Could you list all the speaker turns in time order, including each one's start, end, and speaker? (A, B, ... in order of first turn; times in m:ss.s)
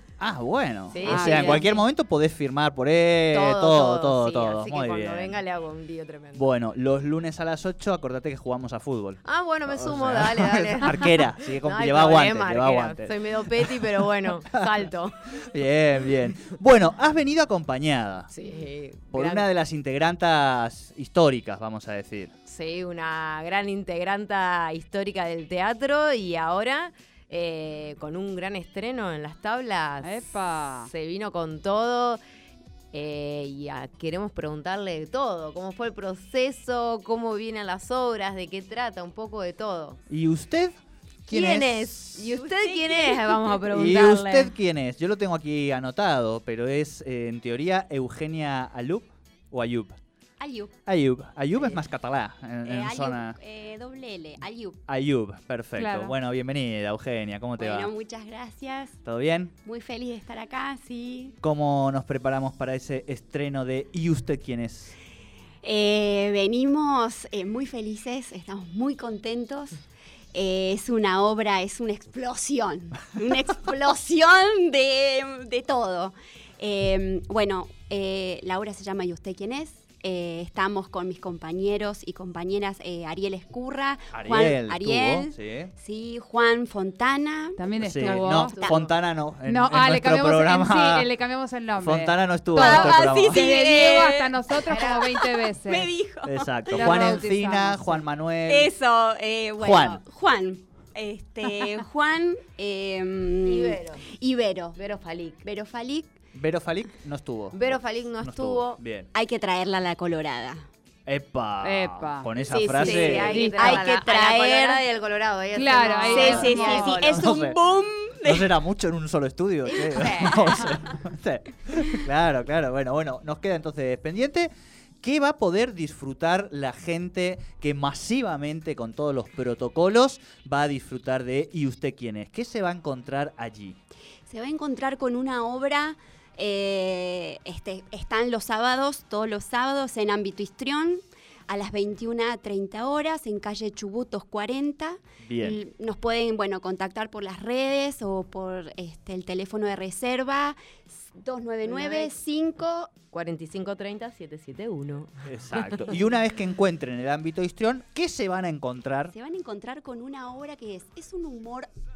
0:00.2-0:05.4 A
0:00.9-0:01.8 B
0:01.0-0:01.6 C
0:03.3-0:06.4 B
0:06.4-0:14.7 A
0:09.2-0:15.3 B
0:15.4-0:18.3 A
0:18.3-0:19.5 B
0:19.1-0:22.3 A
0:22.4-0:32.2 B
0:30.0-0:30.9 C
0:32.9-0:40.0 B
0:40.1-0:42.4 A
0:41.3-0:44.5 B
0:42.4-0:43.7 D
0:43.7-0:50.0 A
0:50.4-0:50.7 D
0:50.8-0:53.4 A
0:52.6-0:54.8 D
0:54.9-0:57.9 A
0:55.8-0:56.1 C
0:57.6-0:59.0 D
0:59.0-0:59.5 A
0:59.6-1:01.4 D
1:01.4-1:04.9 A
1:05.6-1:09.8 D
1:10.3-1:28.9 D
1:24.1-1:25.7 A
1:27.6-1:28.6 C
1:27.8-1:31.1 A
1:28.2-1:28.8 B
1:29.4-1:35.9 C
1:31.8-1:33.5 A
1:32.5-1:37.3 D
1:36.2-1:38.7 A
1:36.7-1:38.0 C
1:38.5-1:44.8 D
1:39.6-1:40.0 A
1:41.5-1:41.8 C
1:43.4-1:44.0 B
1:44.8-1:45.4 B
1:45.4-1:46.1 D
1:46.3-1:49.1 A
1:47.5-1:48.8 B
1:49.1-1:50.6 D
1:51.0-1:53.7 A
1:51.6-1:52.3 C
1:52.4-1:57.3 B
1:52.8-1:54.8 D
1:52.9-1:53.8 C
1:55.5-1:57.0 C
1:55.8-1:58.5 D
1:56.3-1:57.6 A
1:58.2-2:13.8 A
1:59.7-2:00.9 B
2:14.3-2:32.9 D
2:25.2-2:25.6 A
2:31.6-2:32.1 B
2:33.1-2:36.0 B
2:35.2-2:39.1 A
2:39.1-2:41.7 D